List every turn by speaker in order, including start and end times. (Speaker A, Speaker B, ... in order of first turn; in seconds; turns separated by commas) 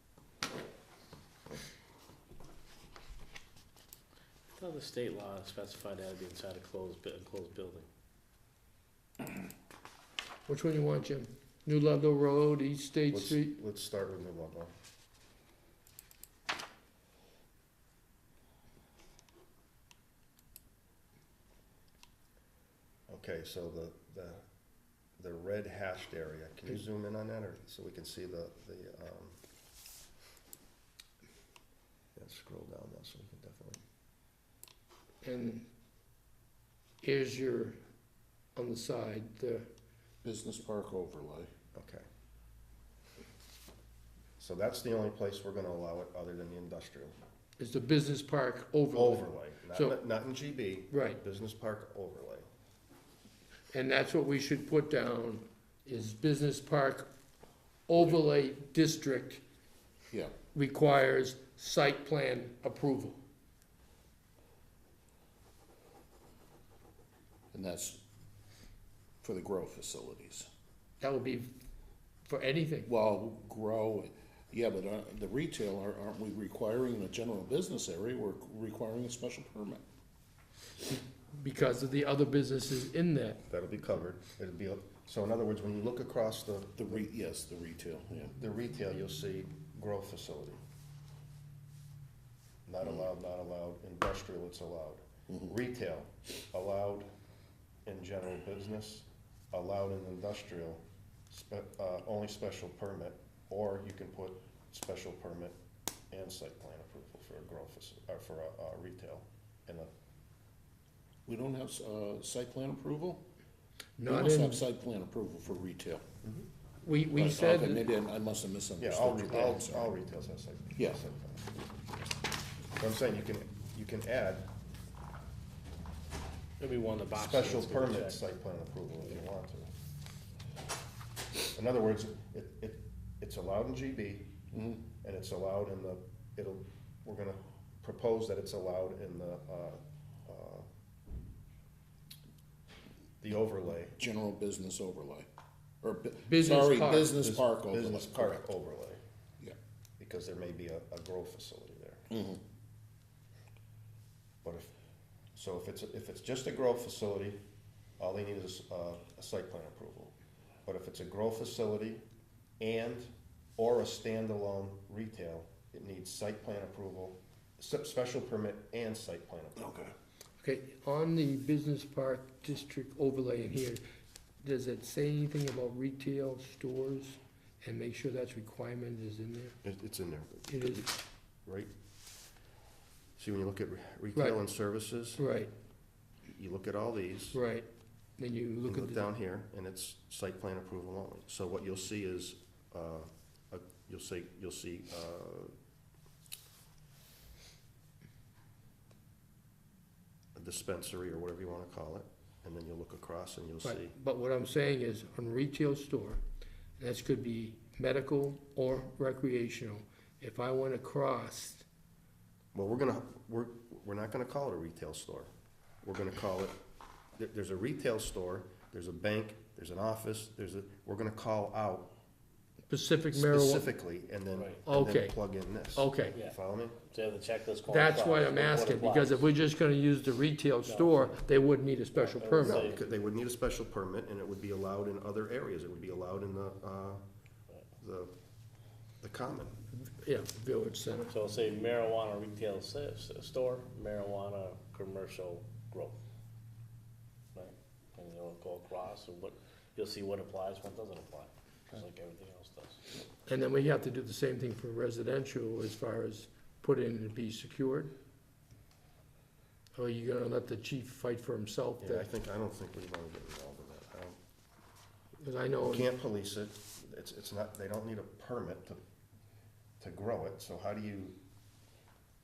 Speaker A: 4.5-7.9, Speaker B: 10.5-13.6, Speaker C: 13.1-14.7, Speaker C: 23.1-24.4, Speaker C: 25.2-29.4, Speaker C: 32.2-33.8, Speaker B: 35.2-35.7, Speaker B: 37.0-37.8, Speaker B: 38.5-39.7, Speaker D: 40.2-41.5, Speaker C: 41.7-42.0, Speaker C: 44.4-47.1, Speaker B: 47.6-50.0, Speaker C: 48.9-52.5, Speaker B: 50.9-51.2, Speaker B: 53.7-57.1, Speaker B: 57.9-59.4, Speaker B: 60.5-63.2, Speaker D: 67.5-68.0, Speaker D: 69.2-70.5, Speaker B: 71.0-71.5, Speaker B: 72.3-72.9, Speaker D: 72.9-79.8, Speaker B: 81.3-83.4, Speaker C: 83.5-87.0, Speaker D: 86.8-88.3, Speaker C: 88.4-90.6, Speaker C: 92.7-97.1, Speaker C: 97.9-105.6, Speaker C: 106.1-109.9, Speaker D: 111.3-113.2, Speaker B: 114.0-114.6, Speaker D: 114.0-116.0, Speaker B: 116.8-117.9, Speaker D: 117.1-119.9, Speaker C: 118.8-121.5, Speaker D: 120.8-121.0, Speaker C: 122.8-124.5, Speaker A: 126.6-128.2, Speaker C: 127.2-129.7, Speaker C: 131.5-134.3, Speaker D: 134.5-134.8, Speaker C: 135.0-140.7, Speaker C: 143.2-144.0, Speaker D: 144.0-145.3, Speaker D: 145.8-148.4, Speaker B: 146.3-147.1, Speaker C: 147.0-149.0, Speaker C: 150.0-152.1, Speaker D: 152.1-152.4, Speaker C: 154.4-154.7, Speaker C: 155.3-157.4, Speaker C: 158.0-162.0, Speaker C: 162.6-169.7, Speaker D: 169.7-169.9, Speaker B: 170.4-173.8, Speaker B: 174.4-179.6, Speaker C: 179.6-180.9, Speaker B: 180.5-180.9, Speaker C: 181.5-181.7, Speaker C: 183.2-185.2, Speaker B: 185.2-185.5, Speaker C: 186.3-187.4, Speaker B: 187.3-187.7, Speaker B: 188.2-189.1, Speaker C: 188.7-195.5, Speaker C: 200.3-203.9, Speaker B: 203.6-206.2, Speaker B: 206.8-211.7, Speaker C: 212.5-215.3, Speaker C: 215.8-216.6, Speaker C: 217.2-221.9, Speaker B: 222.7-223.7, Speaker C: 223.1-226.8, Speaker A: 224.3-224.6, Speaker B: 224.7-225.2, Speaker B: 225.8-226.2, Speaker A: 226.9-229.2, Speaker B: 227.7-232.7, Speaker A: 230.7-231.1, Speaker A: 231.9-232.9, Speaker C: 232.4-237.0, Speaker C: 237.8-238.1, Speaker C: 239.0-239.6, Speaker B: 239.8-241.1, Speaker A: 241.1-246.0, Speaker A: 247.3-252.8, Speaker B: 253.3-257.9, Speaker B: 259.8-262.1, Speaker C: 261.8-264.2, Speaker B: 265.2-265.9, Speaker C: 265.6-268.8, Speaker C: 269.8-271.2